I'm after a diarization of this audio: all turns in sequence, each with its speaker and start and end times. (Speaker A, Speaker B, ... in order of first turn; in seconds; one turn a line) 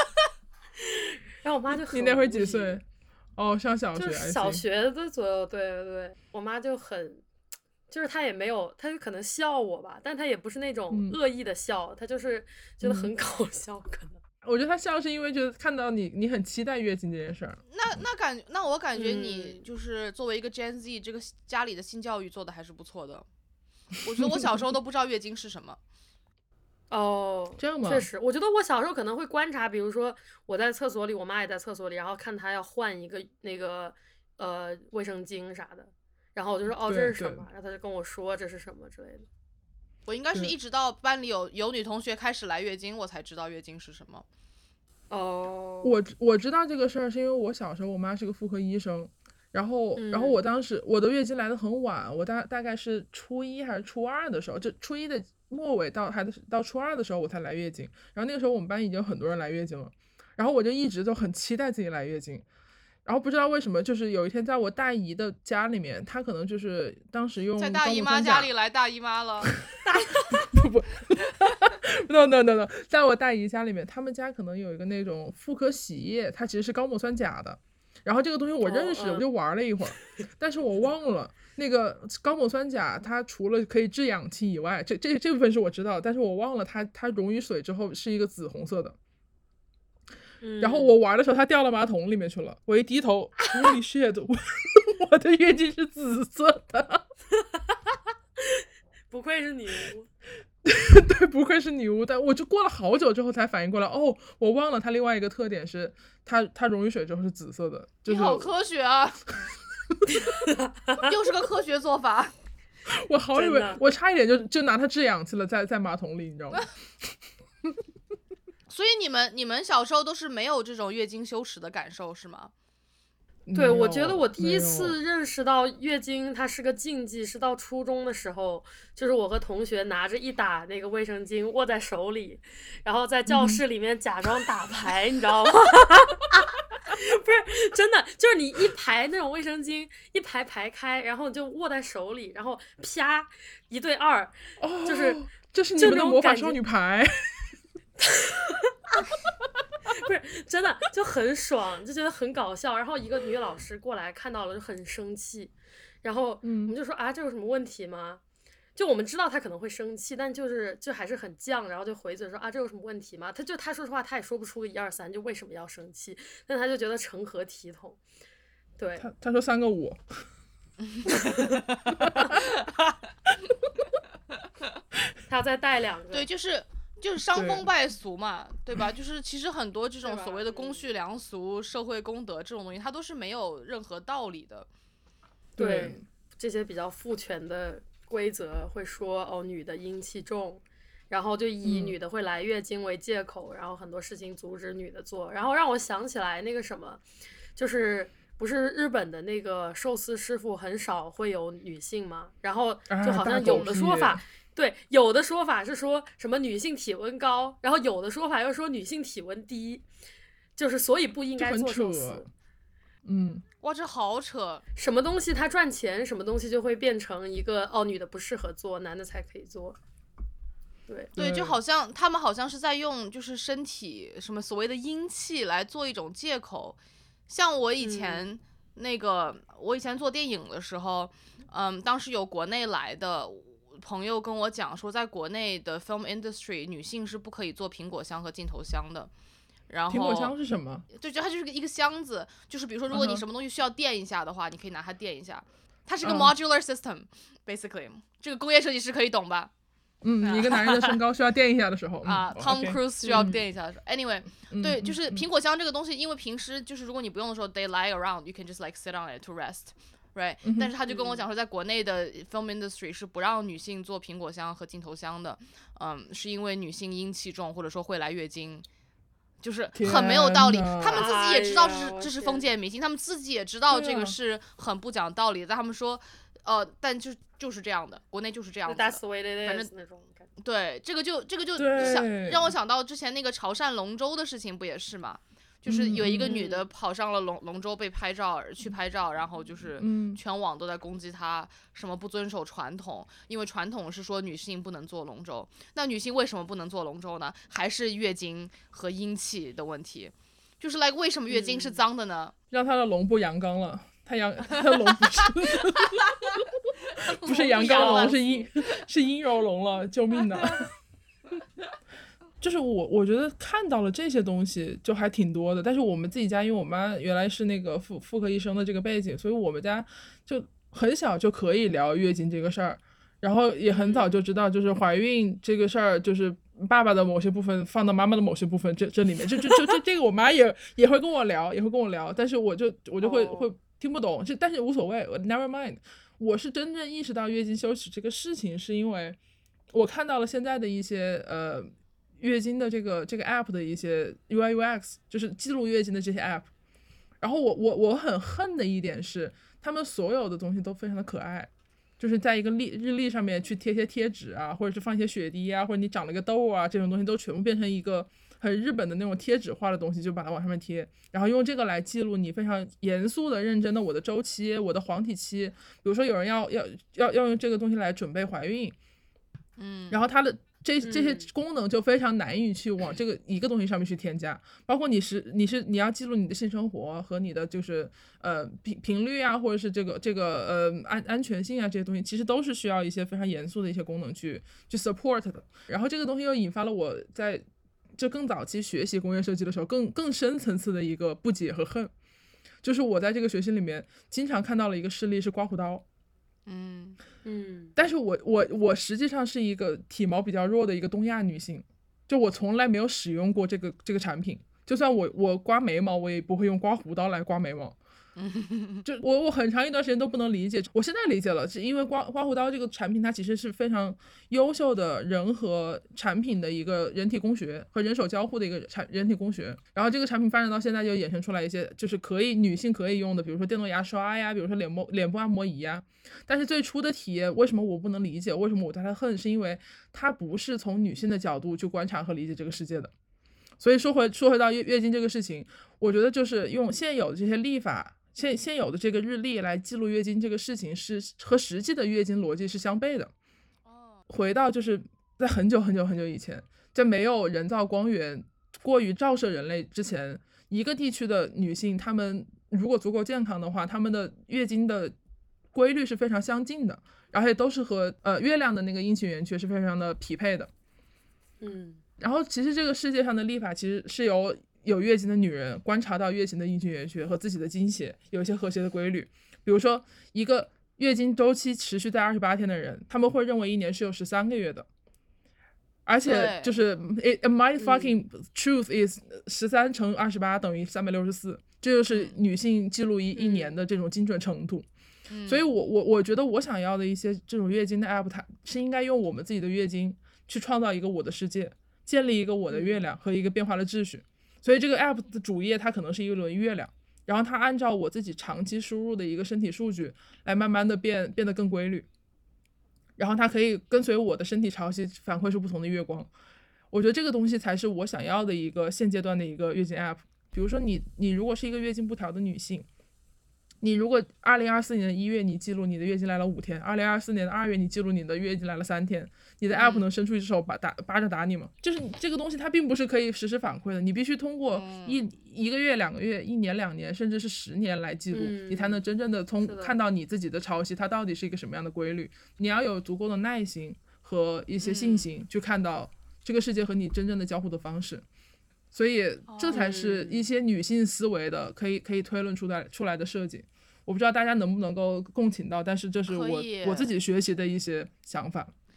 Speaker A: 0.8-2.8
Speaker B: 1.9-2.8
Speaker B: 3.4-4.6
Speaker A: 4.0-7.2
Speaker A: 7.9-14.2
Speaker B: 10.9-11.2
Speaker B: 12.8-13.1
Speaker B: 14.4-17.6
Speaker C: 17.7-23.2
Speaker A: 18.9-19.6
Speaker C: 24.0-25.8
Speaker A: 26.9-39.2
Speaker B: 27.6-28.1
Speaker B: 36.7-37.5
Speaker C: 40.1-44.2
Speaker A: 45.1-46.0
Speaker B: 45.8-62.4
Speaker A: 50.0-50.4
Speaker B: 63.0-68.5
Speaker C: 67.6-69.5
Speaker A: 69.9-70.3
Speaker B: 70.3-88.9
Speaker A: 78.6-79.2
Speaker A: 90.4-91.0
Speaker B: 90.6-97.0
Speaker A: 97.3-100.1
Speaker B: 100.6-108.5
Speaker C: 108.1-109.2
Speaker A: 110.5-111.1
Speaker C: 111.0-112.3
Speaker B: 112.9-116.7
Speaker A: 113.3-113.8
Speaker C: 118.7-122.5
Speaker B: 123.5-125.0
Speaker A: 123.5-145.2
Speaker B: 133.3-133.6
Speaker B: 144.6-147.5
Speaker A: 145.8-146.6
Speaker A: 148.0-149.0
Speaker A: 149.9-158.2
Speaker B: 156.4-156.7
Speaker A: 158.8-168.0
Speaker A: 168.8-169.1
Speaker B: 169.0-170.0
Speaker A: 171.2-171.6
Speaker B: 171.9-172.4
Speaker C: 172.3-172.9
Speaker A: 175.3-176.3
Speaker C: 176.1-184.7
Speaker B: 177.3-177.6
Speaker A: 180.0-180.8
Speaker B: 185.6-186.0
Speaker A: 185.6-197.0
Speaker B: 191.6-191.9
Speaker A: 197.6-209.8
Speaker B: 202.9-204.2
Speaker C: 203.5-203.8
Speaker A: 210.6-212.2
Speaker B: 211.4-212.2
Speaker B: 213.0-213.4
Speaker C: 213.6-214.6
Speaker A: 214.8-219.8
Speaker A: 220.9-221.1
Speaker B: 221.1-221.6
Speaker C: 221.2-226.8
Speaker C: 227.3-239.1
Speaker A: 227.8-228.3
Speaker C: 239.7-240.3
Speaker B: 239.9-240.8
Speaker C: 240.9-249.5
Speaker B: 242.9-243.2
Speaker B: 246.0-246.3
Speaker B: 250.0-253.4
Speaker C: 250.2-250.9
Speaker C: 252.0-268.6
Speaker B: 254.5-255.2
Speaker B: 260.4-260.7
Speaker A: 260.8-261.2
Speaker C: 269.4-279.7
Speaker B: 269.7-271.1
Speaker A: 270.9-272.4
Speaker B: 273.7-274.1
Speaker A: 278.7-280.3
Speaker C: 280.4-302.3
Speaker B: 281.6-282.5
Speaker B: 285.6-286.3
Speaker A: 286.2-286.7
Speaker B: 289.8-290.2
Speaker A: 301.3-301.9
Speaker B: 302.5-306.5
Speaker C: 305.7-308.3
Speaker B: 307.1-310.7
Speaker A: 307.4-308.4
Speaker B: 312.4-339.2
Speaker A: 323.7-324.1
Speaker A: 333.0-333.5
Speaker B: 339.7-346.5
Speaker B: 347.2-368.7
Speaker C: 369.6-370.0
Speaker B: 369.9-387.4
Speaker A: 370.8-371.3
Speaker B: 387.9-391.9
Speaker B: 392.6-395.8
Speaker C: 396.5-397.0
Speaker A: 397.2-397.7
Speaker B: 397.8-407.8
Speaker C: 408.1-408.8
Speaker B: 408.8-432.9
Speaker B: 433.6-443.1
Speaker C: 443.6-444.0
Speaker B: 444.1-454.9
Speaker B: 455.5-460.5
Speaker A: 461.4-461.8
Speaker B: 462.0-474.7
Speaker B: 475.9-484.6
Speaker C: 476.0-476.6
Speaker A: 477.6-478.0
Speaker C: 481.9-482.1
Speaker A: 483.1-483.5
Speaker C: 485.1-485.4
Speaker B: 485.3-501.9
Speaker A: 492.5-492.8
Speaker B: 503.0-506.1
Speaker B: 506.7-512.7
Speaker B: 513.6-538.0
Speaker C: 519.5-519.8
Speaker C: 524.5-525.0
Speaker A: 528.1-528.8
Speaker A: 529.4-529.7
Speaker C: 534.6-535.1
Speaker B: 538.7-548.5
Speaker C: 539.3-539.7
Speaker A: 539.5-540.3
Speaker C: 546.1-546.9